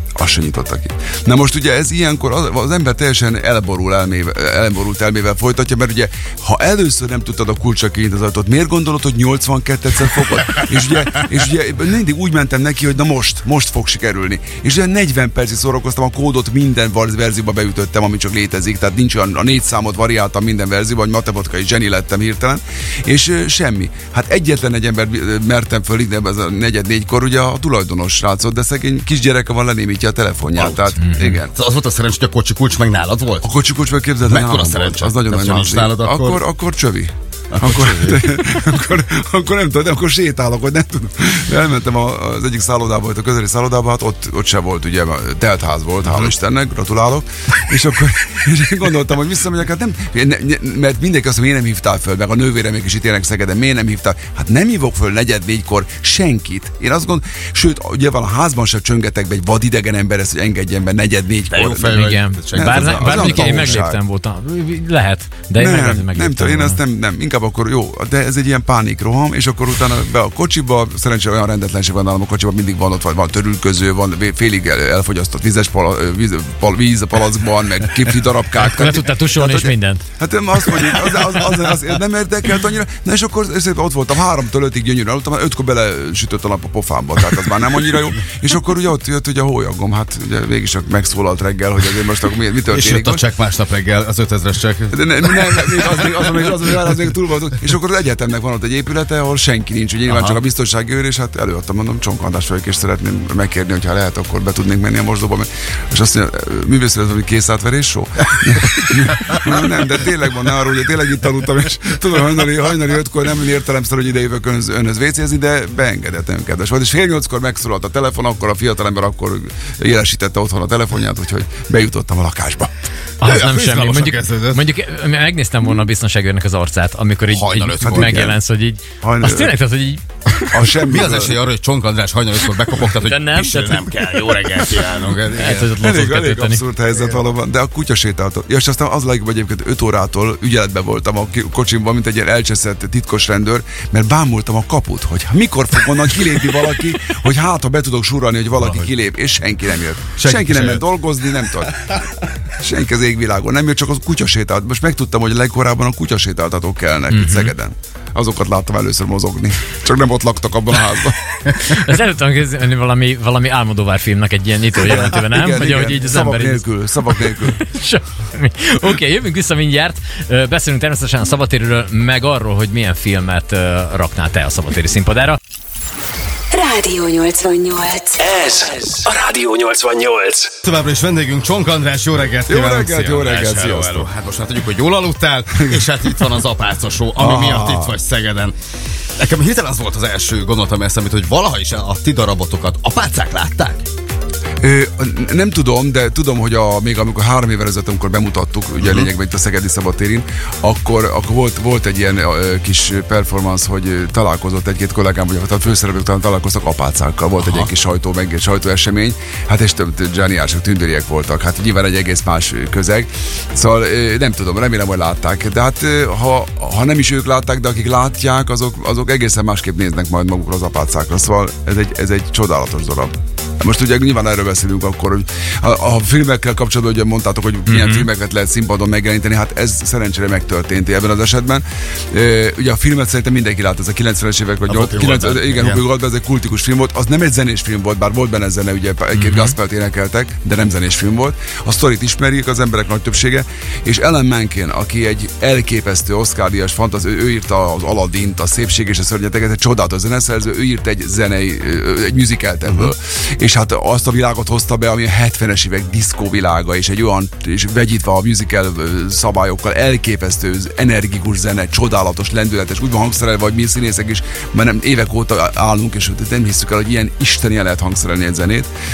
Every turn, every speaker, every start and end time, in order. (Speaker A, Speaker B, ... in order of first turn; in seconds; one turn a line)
Speaker A: 0.2-31.5
Speaker B: 30.5-30.9
Speaker C: 31.0-31.4
Speaker B: 31.4-33.5
Speaker A: 33.4-64.0
Speaker B: 34.2-36.4
Speaker B: 37.5-38.2
Speaker B: 61.5-63.8
Speaker C: 61.9-66.8
Speaker A: 65.5-93.2
Speaker C: 78.6-80.0
Speaker B: 92.7-96.8
Speaker A: 94.9-122.7
Speaker B: 100.1-100.4
Speaker B: 108.8-109.4
Speaker C: 123.2-130.6
Speaker B: 123.2-124.7
Speaker B: 127.3-128.3
Speaker A: 127.8-128.4
Speaker A: 129.0-129.5
Speaker A: 130.5-131.4
Speaker B: 130.8-135.7
Speaker C: 132.8-136.6
Speaker A: 135.8-151.7
Speaker B: 148.6-148.9
Speaker B: 150.1-150.8
Speaker A: 152.6-161.7
Speaker C: 157.1-157.5
Speaker C: 161.6-175.4
Speaker A: 164.7-167.5
Speaker D: 176.5-178.9
Speaker E: 178.2-180.5
Speaker B: 180.6-188.6
Speaker A: 182.5-184.1
Speaker A: 185.6-186.1
Speaker A: 187.1-188.0
Speaker B: 189.2-193.9
Speaker A: 194.6-268.7
Speaker B: 198.8-199.1
Speaker C: 227.7-228.1
Speaker B: 234.7-235.8
Speaker C: 239.1-239.6